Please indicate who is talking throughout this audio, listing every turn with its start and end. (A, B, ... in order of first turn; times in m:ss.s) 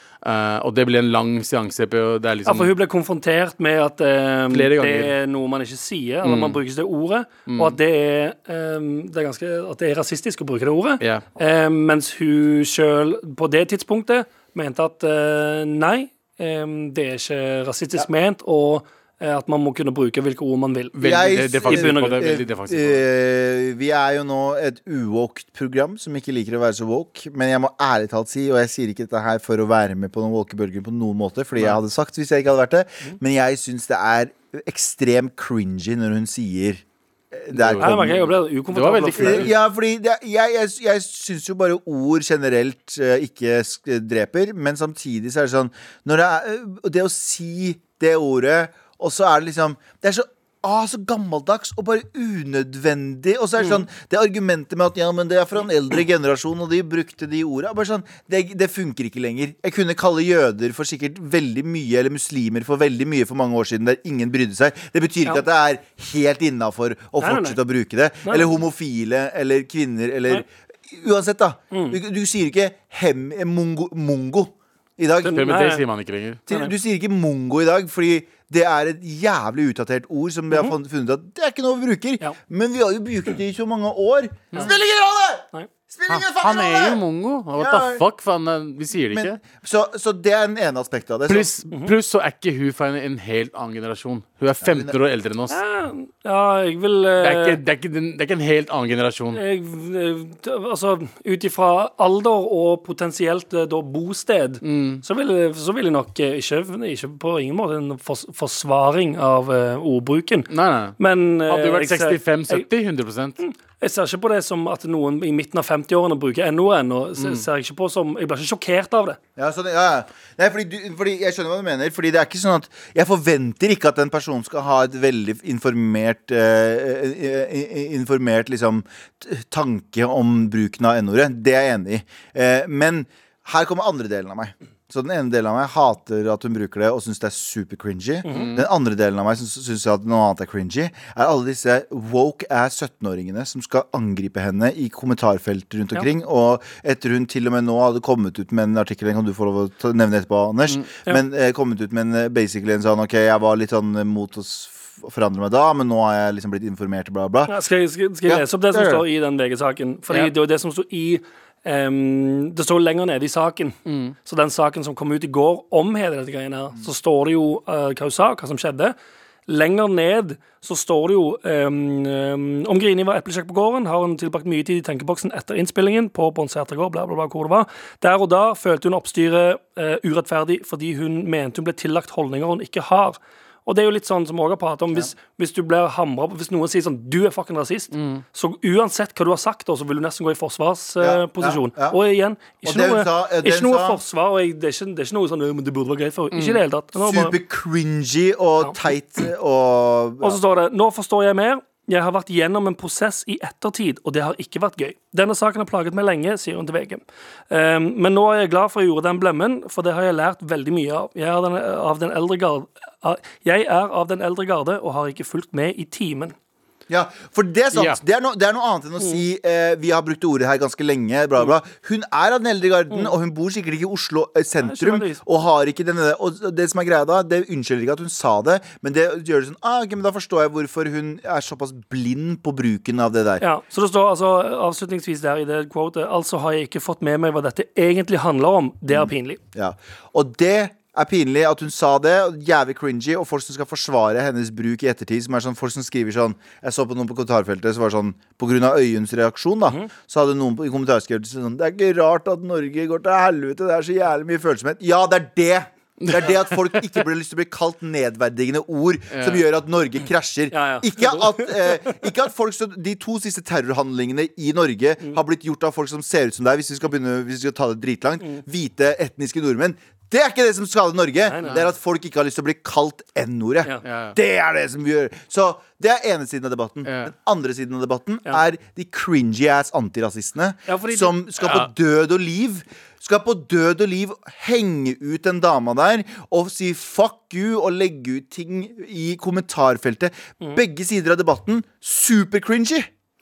0:00.2-0:02.7 A
0:02.4-0:20.9 B
0:04.5-0:05.1 A
0:06.2-0:06.6 A
0:07.5-0:07.8 A
0:20.9-0:23.0 A
0:21.0-0:36.8 C
0:21.6-0:22.3 B
0:37.3-0:38.2 C
0:37.5-0:39.6 A
0:37.8-0:39.5 B
0:39.2-1:15.5 C
1:07.2-1:07.6 B
1:08.2-1:08.5 B
1:11.7-1:12.0 B
1:15.2-1:15.8 B
1:15.3-1:16.4 A
1:16.5-1:27.0 C
1:26.1-1:29.4 A
1:27.6-1:28.0 C
1:29.1-1:31.5 C
1:31.3-1:35.6 A
1:34.6-1:34.9 C
1:35.5-1:37.6 B
1:37.2-1:39.4 A
1:39.3-1:52.7 B
1:44.6-1:45.0 A
1:50.5-1:53.4 A
1:53.4-1:59.2 B
1:57.2-1:57.4 A
1:59.4-2:37.6 C
2:18.2-2:18.5 B
2:18.3-2:18.6 A
2:37.5-2:48.9 B
2:38.2-2:39.0 C
2:43.8-2:44.1 A
2:49.5-3:17.4 B
3:07.9-3:08.2 A
3:11.0-3:12.0 C
3:12.6-3:14.0 C
3:16.3-3:16.6 A
3:17.0-3:20.4 C
3:20.2-3:36.3 B
3:36.9-3:53.4 C
3:37.7-3:38.0 A
3:44.6-3:45.2 B
3:53.4-3:59.4 B
3:58.9-4:52.9 C
4:16.0-4:17.0 A
4:19.1-4:19.4 A
4:20.5-4:22.0 B
4:31.3-4:31.6 B
4:33.8-4:34.2 A
4:36.8-4:37.1 A
4:40.7-4:41.2 B
4:41.4-4:41.7 A